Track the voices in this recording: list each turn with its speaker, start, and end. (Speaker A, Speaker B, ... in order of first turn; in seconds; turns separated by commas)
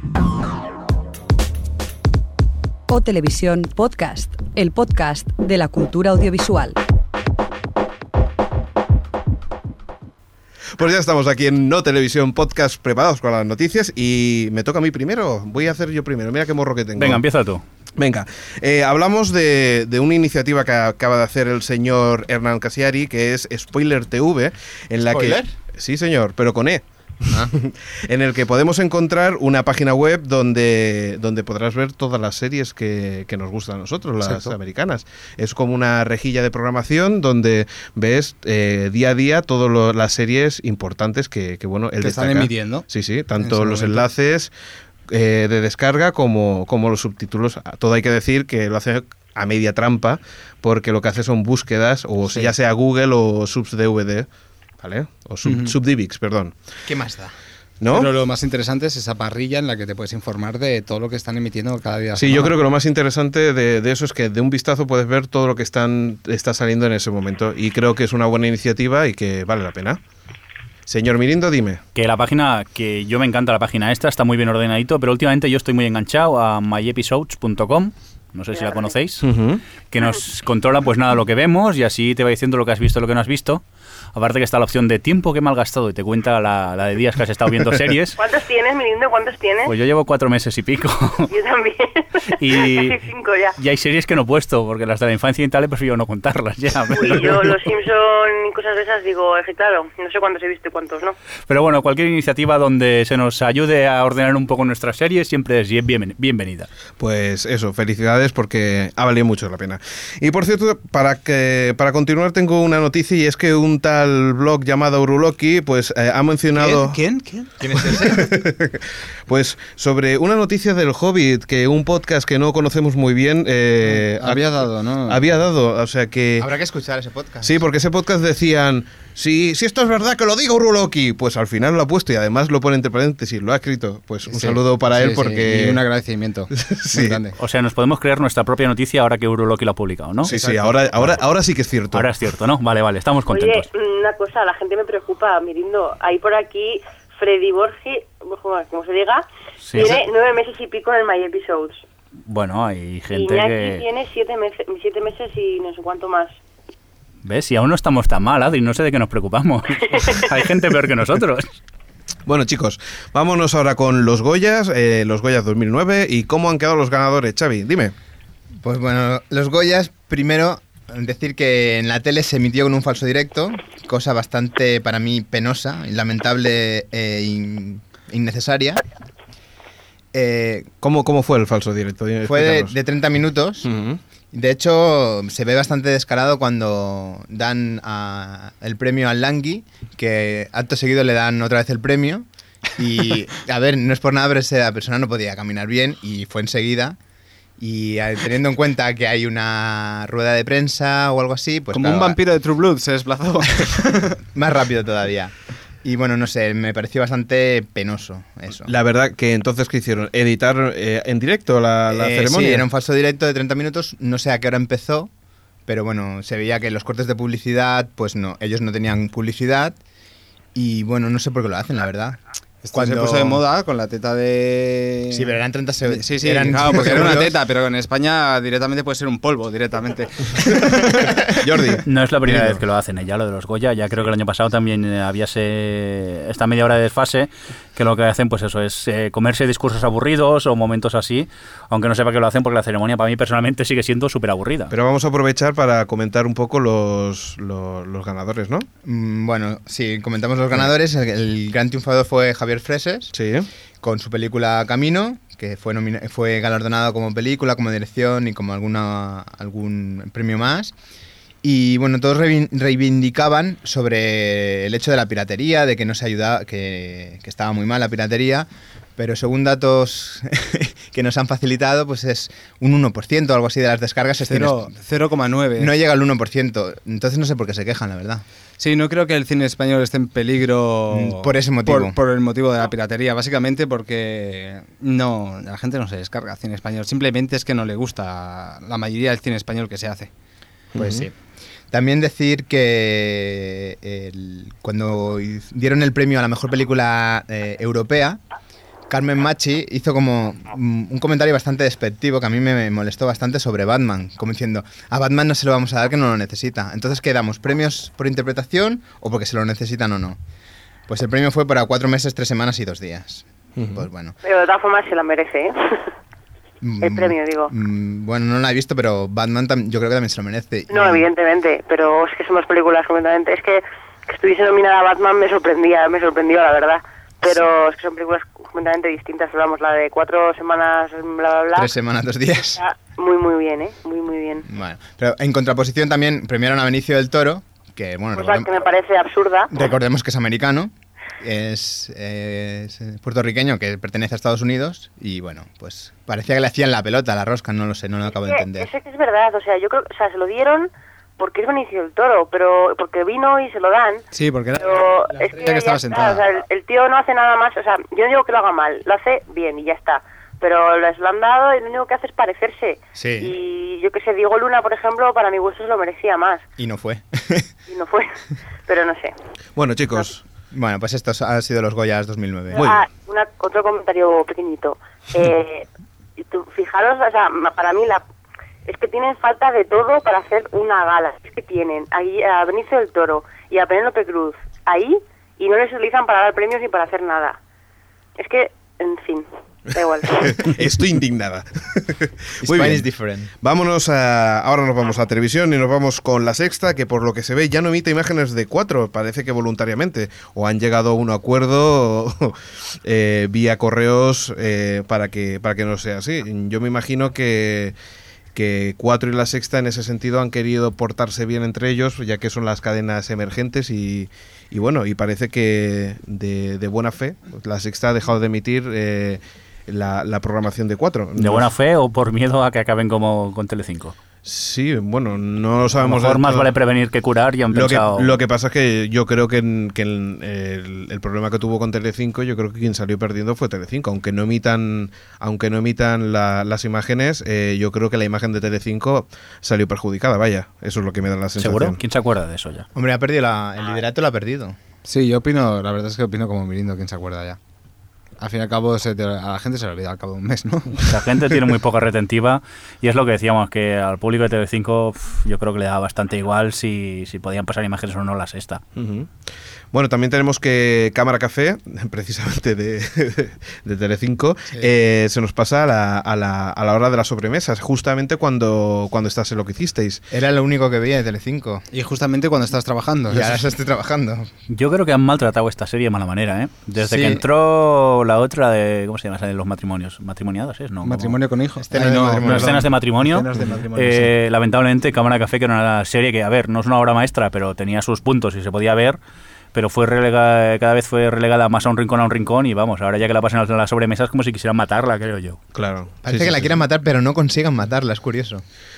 Speaker A: 2.9-6.8, Speaker B: 10.8-17.2, Speaker C: 17.0-17.6, Speaker B: 18.0-44.5, Speaker D: 25.1-25.5, Speaker E: 34.2-34.5, Speaker E: 42.0-42.8, Speaker E: 43.4-44.1, Speaker B: 45.1-54.3, Speaker B: 54.8-56.5, Speaker E: 55.4-55.7, Speaker D: 56.9-57.3, Speaker B: 57.8-58.1, Speaker E: 57.9-62.5, Speaker B: 62.1-70.0, Speaker B: 70.9-71.8, Speaker C: 71.9-79.3, Speaker F: 78.5-78.9, Speaker B: 79.2-79.6, Speaker C: 79.9-83.6, Speaker C: 84.1-88.2, Speaker F: 88.2-89.7, Speaker C: 89.7-91.3, Speaker F: 91.3-93.5, Speaker C: 92.3-93.0, Speaker C: 93.6-97.6, Speaker F: 96.9-101.2, Speaker C: 101.5-106.7, Speaker B: 107.0-117.0, Speaker E: 116.5-118.2, Speaker D: 117.7-118.1, Speaker B: 117.7-124.4, Speaker E: 123.8-125.2, Speaker B: 125.1-126.5, Speaker D: 126.4-127.6, Speaker B: 127.4-135.8, Speaker E: 134.3-137.3, Speaker B: 136.5-137.2, Speaker C: 137.4-140.3, Speaker E: 140.2-141.2, Speaker B: 140.2-142.1, Speaker C: 141.9-143.7, Speaker F: 143.3-151.8, Speaker C: 149.6-149.9, Speaker C: 152.3-153.8, Speaker F: 153.1-156.4, Speaker C: 157.2-161.5, Speaker B: 162.2-167.9, Speaker D: 168.6-178.8, Speaker D: 180.1-180.7, Speaker B: 180.8-182.7, Speaker D: 182.2-183.7, Speaker B: 183.6-184.0, Speaker D: 184.3-192.2, Speaker D: 192.8-197.0, Speaker D: 197.6-202.2, Speaker E: 201.7-204.2, Speaker D: 204.3-205.3, Speaker D: 205.8-208.7, Speaker B: 208.7-212.7, Speaker D: 211.9-215.1, Speaker D: 215.7-219.8, Speaker D: 220.5-222.2, Speaker E: 222.6-225.3, Speaker D: 222.7-223.4, Speaker D: 225.1-227.3, Speaker E: 225.9-231.3, Speaker B: 231.4-232.5, Speaker C: 231.8-244.7, Speaker B: 244.7-248.7, Speaker D: 248.8-253.1, Speaker B: 253.1-253.5, Speaker D: 253.8-260.7, Speaker D: 261.4-274.7, Speaker E: 274.3-275.7, Speaker D: 275.6-278.2, Speaker E: 278.6-290.1, Speaker D: 280.9-281.9, Speaker B: 290.7-291.0, Speaker D: 290.8-291.1, Speaker E: 290.8-291.1, Speaker D: 291.7-298.2, Speaker D: 298.9-310.2, Speaker D: 310.9-314.1, Speaker B: 313.6-313.8, Speaker F: 314.2-315.8, Speaker D: 316.6-321.1, Speaker F: 316.8-317.5, Speaker F: 320.7-331.7, Speaker D: 331.5-332.6, Speaker F: 332.6-334.4, Speaker D: 334.5-338.5, Speaker F: 338.1-339.5, Speaker D: 339.5-348.7, Speaker F: 348.2-354.1, Speaker E: 354.1-356.2, Speaker F: 354.6-366.4, Speaker D: 362.9-363.3, Speaker D: 366.6-367.5, Speaker F: 367.7-369.1, Speaker B: 369.6-370.2, Speaker D: 370.5-372.6, Speaker B: 372.5-372.8, Speaker F: 372.5-375.6, Speaker F: 376.2-378.0, Speaker F: 378.6-387.4, Speaker F: 388.2-390.5, Speaker B: 390.2-392.9, Speaker D: 392.4-393.3, Speaker B: 393.4-407.7, Speaker B: 408.3-421.5, Speaker C: 421.2-423.9, Speaker B: 424.2-426.5, Speaker C: 425.8-428.1, Speaker B: 427.5-441.8, Speaker C: 441.4-442.6, Speaker D: 442.7-444.6, Speaker E: 444.8-447.4, Speaker E: 448.2-450.8, Speaker C: 450.8-458.6, Speaker B: 458.8-459.1, Speaker B: 459.7-470.0, Speaker D: 470.1-471.6, Speaker E: 471.7-473.4, Speaker D: 473.1-474.3, Speaker C: 474.5-481.2, Speaker E: 480.8-484.1, Speaker D: 481.6-482.6, Speaker C: 482.2-489.0, Speaker C: 489.5-495.4, Speaker B: 495.5-496.5, Speaker D: 496.0-498.4